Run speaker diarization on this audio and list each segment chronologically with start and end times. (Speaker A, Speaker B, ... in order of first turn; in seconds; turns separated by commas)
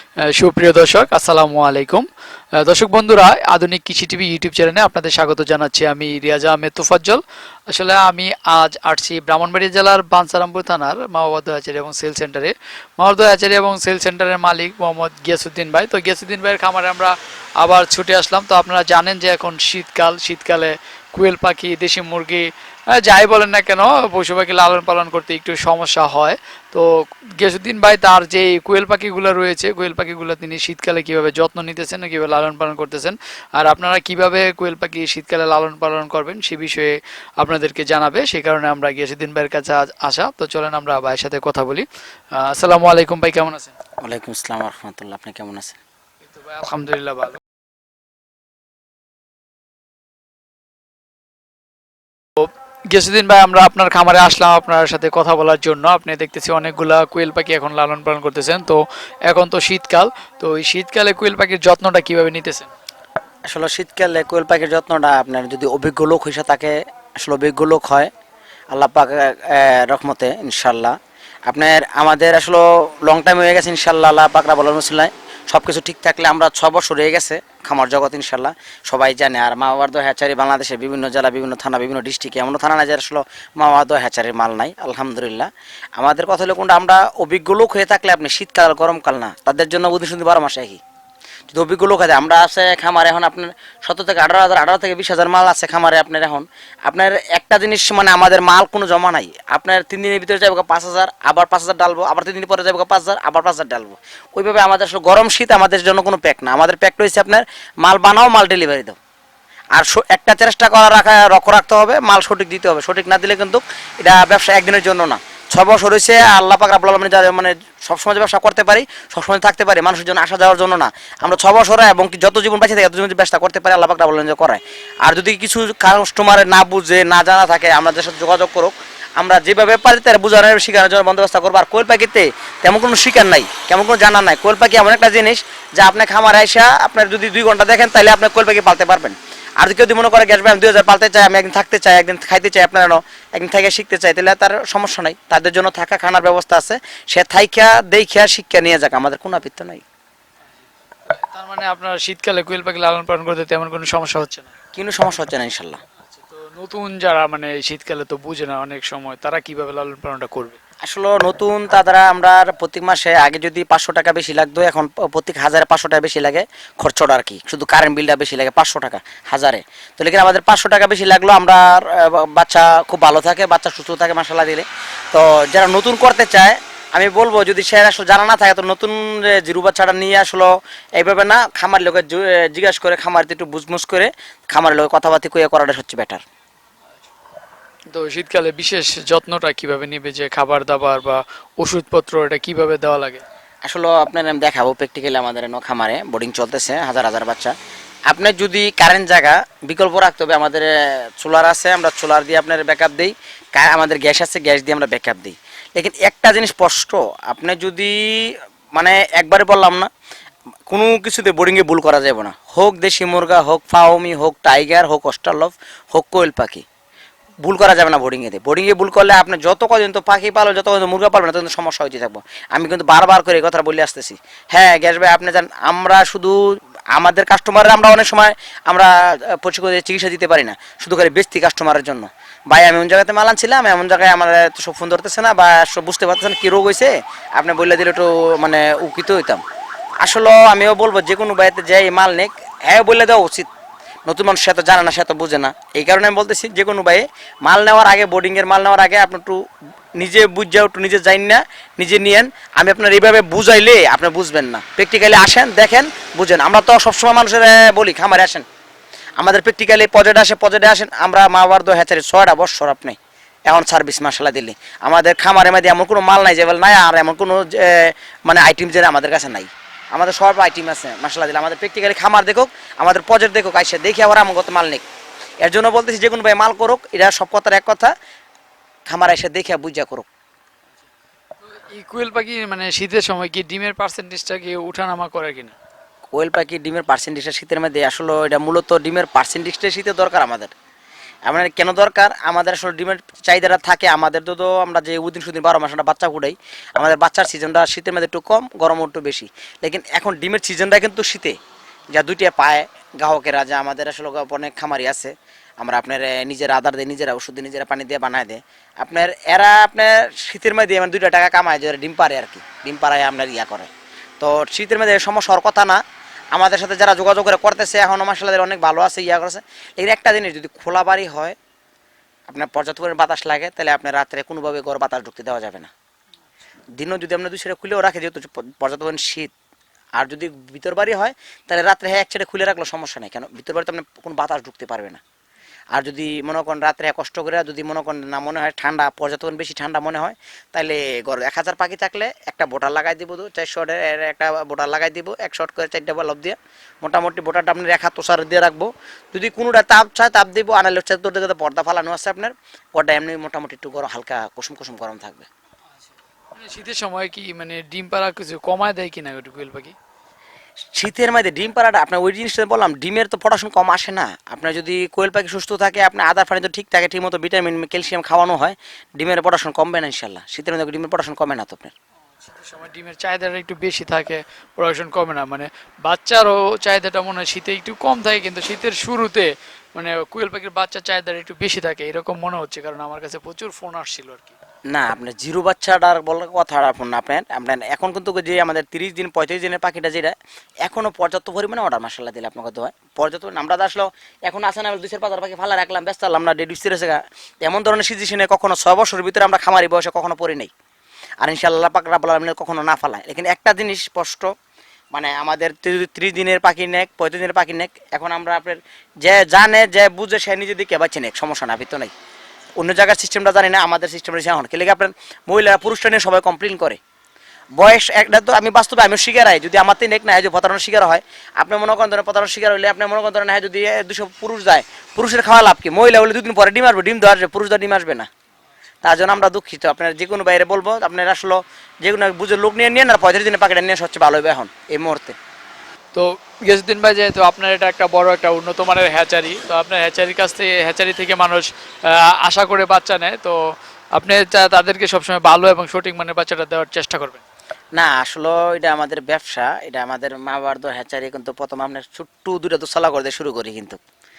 Speaker A: 0.3-2.0, Speaker A: 2.6-26.9, Speaker A: 27.4-41.9, Speaker A: 42.4-43.7, Speaker B: 44.0-45.8, Speaker A: 46.2-47.4, Speaker A: 52.4-62.7, Speaker B: 63.5-68.1, Speaker B: 68.7-70.9, Speaker B: 71.5-90.8, Speaker B: 91.5-109.0, Speaker B: 109.7-149.8, Speaker A: 151.1-154.5, Speaker B: 154.7-155.8, Speaker A: 156.0-160.6, Speaker B: 160.8-186.2, Speaker A: 187.9-193.2, Speaker B: 193.7-197.5, Speaker B: 198.1-209.9, Speaker B: 210.7-216.6, Speaker B: 217.4-226.4, Speaker B: 226.9-239.4, Speaker B: 240.0-243.5, Speaker B: 244.1-249.4, Speaker B: 250.0-258.4, Speaker B: 259.2-274.8, Speaker B: 275.4-277.9, Speaker B: 278.9-280.1, Speaker A: 281.5-285.6, Speaker B: 286.1-290.5, Speaker B: 291.2-301.3, Speaker B: 301.9-313.7, Speaker B: 314.2-315.8, Speaker B: 316.3-321.4, Speaker B: 322.3-325.7, Speaker B: 326.8-329.3, Speaker B: 330.0-335.0, Speaker B: 335.7-355.3, Speaker A: 356.3-359.8, Speaker B: 360.8-371.7, Speaker A: 372.2-384.3, Speaker B: 384.7-400.5, Speaker B: 401.2-404.3, Speaker B: 404.9-411.9, Speaker B: 412.6-416.8, Speaker B: 417.6-428.1, Speaker B: 428.8-435.1, Speaker A: 435.9-443.4, Speaker A: 444.0-447.2, Speaker B: 447.7-453.8